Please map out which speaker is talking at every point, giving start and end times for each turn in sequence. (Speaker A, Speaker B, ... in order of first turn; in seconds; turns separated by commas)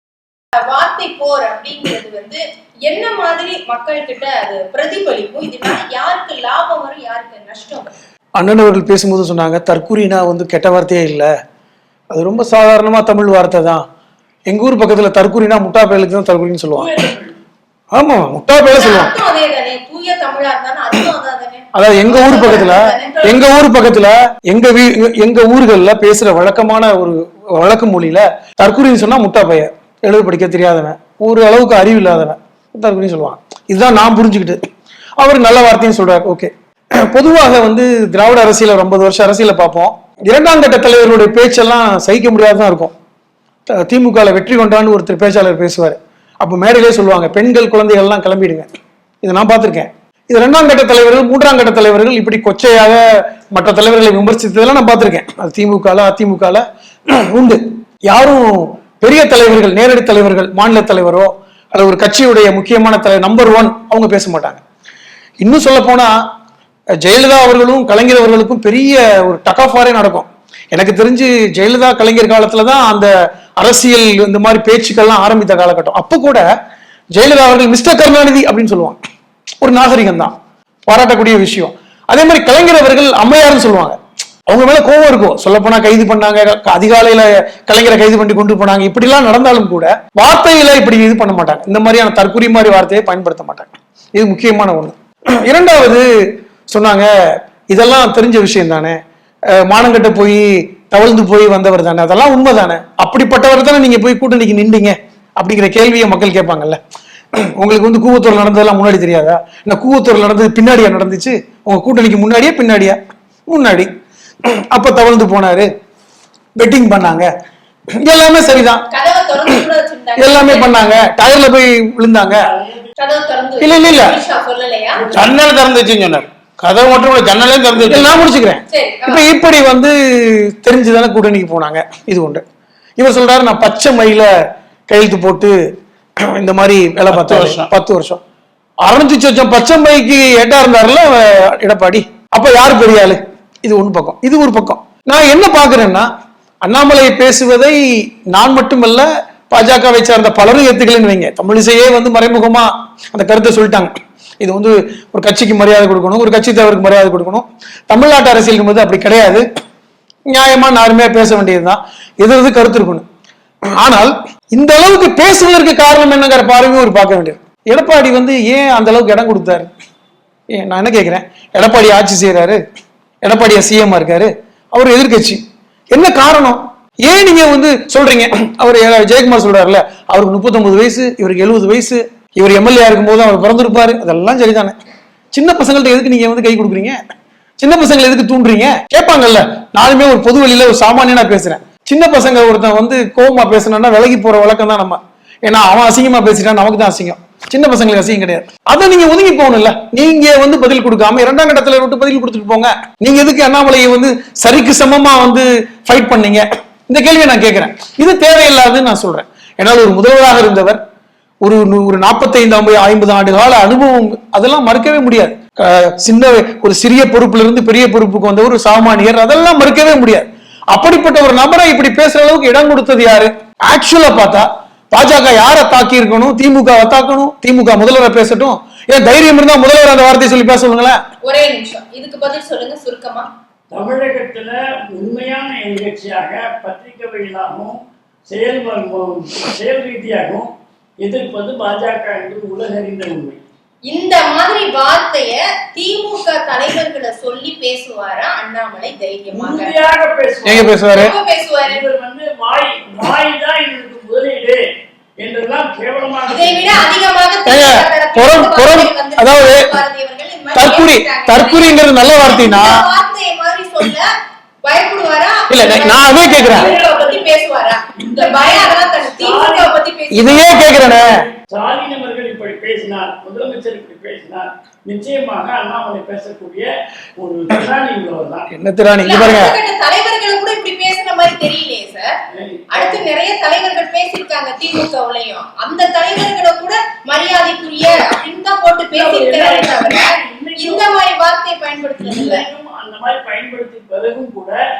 Speaker A: 0.6-7.9, Speaker B: 8.4-11.3, Speaker B: 12.1-13.8, Speaker B: 14.5-16.9, Speaker C: 16.8-17.4, Speaker B: 17.9-19.1, Speaker A: 18.7-23.4, Speaker B: 21.7-34.6, Speaker B: 35.2-36.5, Speaker B: 37.0-42.9, Speaker B: 43.7-48.7, Speaker B: 49.2-64.6, Speaker B: 65.4-66.2, Speaker B: 67.0-76.5, Speaker B: 77.1-79.0, Speaker B: 79.6-80.3, Speaker B: 80.9-96.1, Speaker B: 96.7-97.1, Speaker B: 97.7-99.0, Speaker B: 99.5-106.8, Speaker B: 107.4-113.0, Speaker B: 113.5-113.9, Speaker B: 114.6-115.7, Speaker B: 116.6-117.3, Speaker B: 118.0-118.8, Speaker A: 118.9-121.0, Speaker B: 120.2-122.4, Speaker C: 122.3-122.9, Speaker A: 123.0-125.0, Speaker B: 123.6-124.2, Speaker C: 125.0-125.4, Speaker D: 125.1-128.2, Speaker B: 127.8-132.4, Speaker A: 128.7-129.2, Speaker B: 133.0-134.3, Speaker B: 134.9-135.6, Speaker B: 136.2-138.2, Speaker D: 137.1-137.7, Speaker B: 138.8-146.1, Speaker B: 146.6-159.4, Speaker B: 160.3-163.0, Speaker B: 163.8-169.7, Speaker B: 170.5-172.6, Speaker B: 173.2-175.4, Speaker B: 175.9-184.8, Speaker B: 185.3-187.0, Speaker B: 187.6-210.8, Speaker B: 211.4-231.0, Speaker A: 231.2-233.3, Speaker C: 233.7-240.5, Speaker C: 241.0-243.4, Speaker A: 243.9-249.8, Speaker C: 249.3-250.8, Speaker B: 250.4-251.1, Speaker A: 250.9-251.8, Speaker C: 251.7-254.6, Speaker C: 255.2-256.9, Speaker A: 256.3-264.1, Speaker B: 257.4-259.8, Speaker B: 260.5-262.8, Speaker A: 264.6-270.7, Speaker B: 265.5-266.7, Speaker C: 266.6-267.2, Speaker C: 268.0-269.7, Speaker B: 270.1-271.2, Speaker C: 270.7-278.5, Speaker B: 278.5-279.5, Speaker A: 279.0-282.1, Speaker C: 282.3-283.0, Speaker A: 282.7-292.5, Speaker C: 288.9-290.9, Speaker C: 292.0-294.6